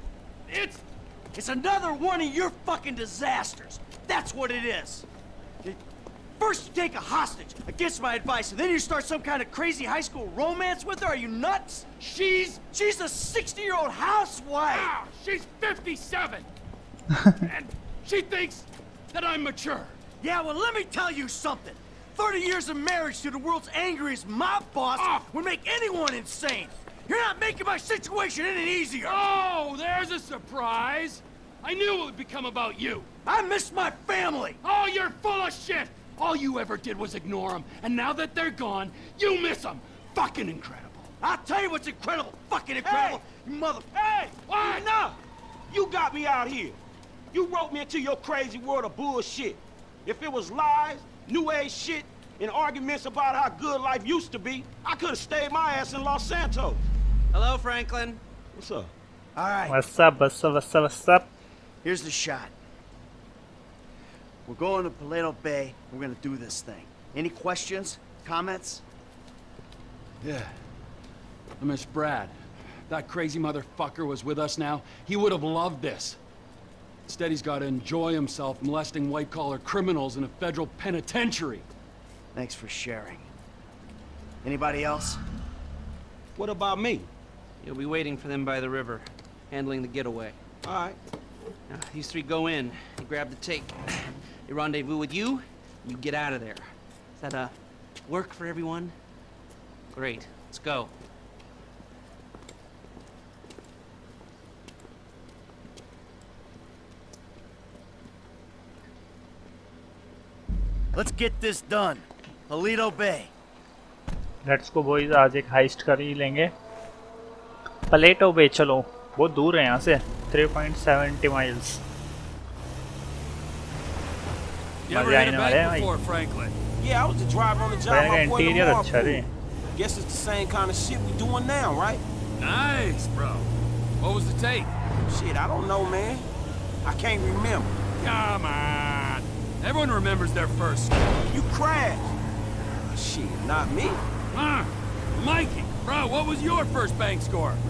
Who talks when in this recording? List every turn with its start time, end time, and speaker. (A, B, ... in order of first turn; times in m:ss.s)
0:00.5-0:00.8 A
0:01.3-0:05.1 B
0:06.4-0:11.9 B
0:12.0-0:12.5 A
0:12.4-0:14.9 B
0:14.7-0:16.5 A
0:17.4-0:20.0 A
0:20.2-0:29.3 B
0:25.0-0:25.2 A
0:29.0-0:33.1 A
0:33.2-0:34.6 B
0:34.6-0:41.1 A
0:41.2-0:43.9 B
0:42.8-0:43.2 C
0:43.9-0:45.2 C
0:45.7-0:46.8 C
0:47.3-0:56.8 C
0:57.3-0:58.2 D
0:58.5-0:58.9 C
0:59.4-0:59.8 B
0:59.7-1:01.3 E
1:01.8-1:02.5 B
1:04.4-1:08.8 B
1:10.2-1:10.5 A
1:11.6-1:12.4 A
1:12.9-1:16.2 A
1:17.1-1:21.7 A
1:22.3-1:23.3 B
1:24.4-1:25.2 B
1:26.4-1:27.1 C
1:27.6-1:30.4 D
1:30.6-1:31.0 C
1:31.7-1:33.8 D
1:34.4-1:37.5 D
1:38.0-1:38.9 D
1:39.9-1:40.9 D
1:50.9-1:53.3 B
1:54.4-1:56.5 E
1:57.9-2:01.8 E
2:04.9-2:06.5 A
2:04.9-2:05.9 E
2:06.8-2:12.0 C
2:07.9-2:09.3 E
2:12.4-2:13.5 A
2:14.0-2:14.7 A
2:15.1-2:16.3 C
2:16.8-2:17.8 C
2:18.0-2:21.2 A
2:21.3-2:22.2 C
2:22.8-2:24.0 C
2:24.3-2:27.6 A